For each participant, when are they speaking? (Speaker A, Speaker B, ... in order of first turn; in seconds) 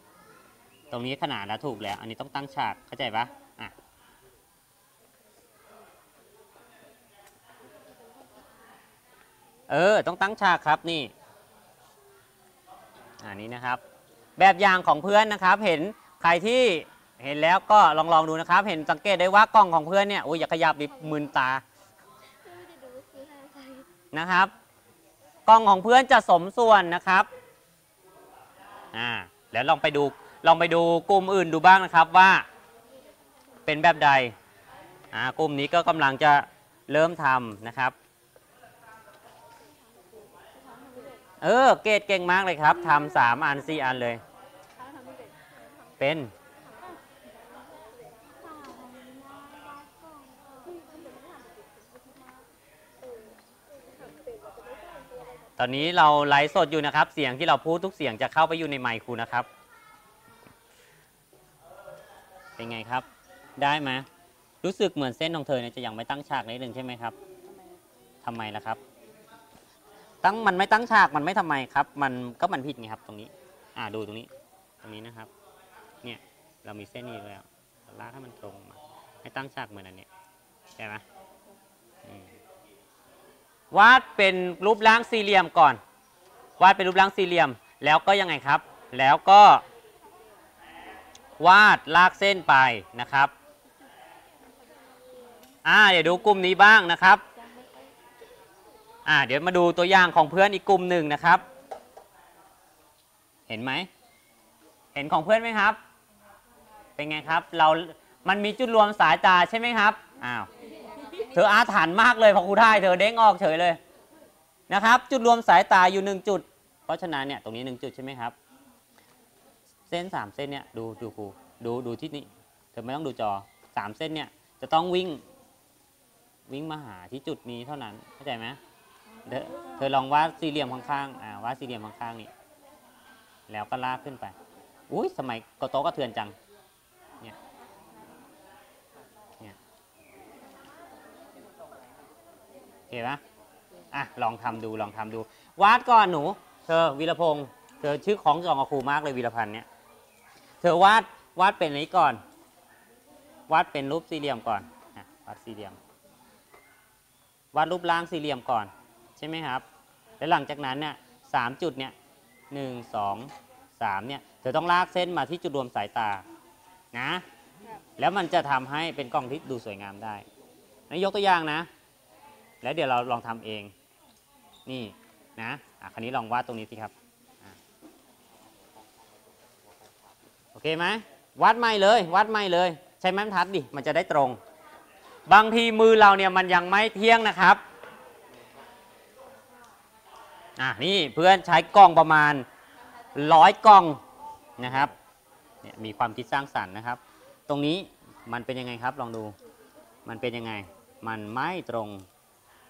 Speaker A: 0.9-3.7, 9.7-11.1, 13.2-13.8, 14.4-21.6, 24.1-24.5, 25.5-27.3, 28.9-32.5, 33.7-34.3, 35.1-38.0, 41.4-44.2, 46.0-46.3, 55.6-59.5, 62.6-63.0, 63.6-64.1, 64.6-67.2, 68.2-68.8, 70.2-74.3, 74.8-75.3, 76.0-80.1, 80.8-81.0, 83.7-85.8, 86.6-89.6, 91.4-93.3, 95.7-97.2, 99.1-101.5, 103.5-103.9, 105.0-105.8, 107.0-110.5, 111.3-113.8, 114.7-118.3, 119.9-125.2, 126.5-128.6, 129.3-132.3, 133.5-134.3, 134.9-136.3, 142.9-143.2, 143.9-149.7, 150.6-152.2, 153.5-155.8, 157.5-159.6, 160.2-161.9, 162.5-166.2, 166.9-167.2, 168.0-170.2, 170.9-171.7, 172.6-173.7, 174.7-176.9, 180.6-184.4, 185.3-187.6, 190.6-192.4, 193.2-194.0, 194.6-194.9, 195.6-199.3, 200.1-202.1
Speaker B: 22.4-23.9, 40.2-41.2, 44.8-45.6, 46.5-47.1, 47.7-52.5, 53.0-55.5, 97.5-97.9, 129.5-129.8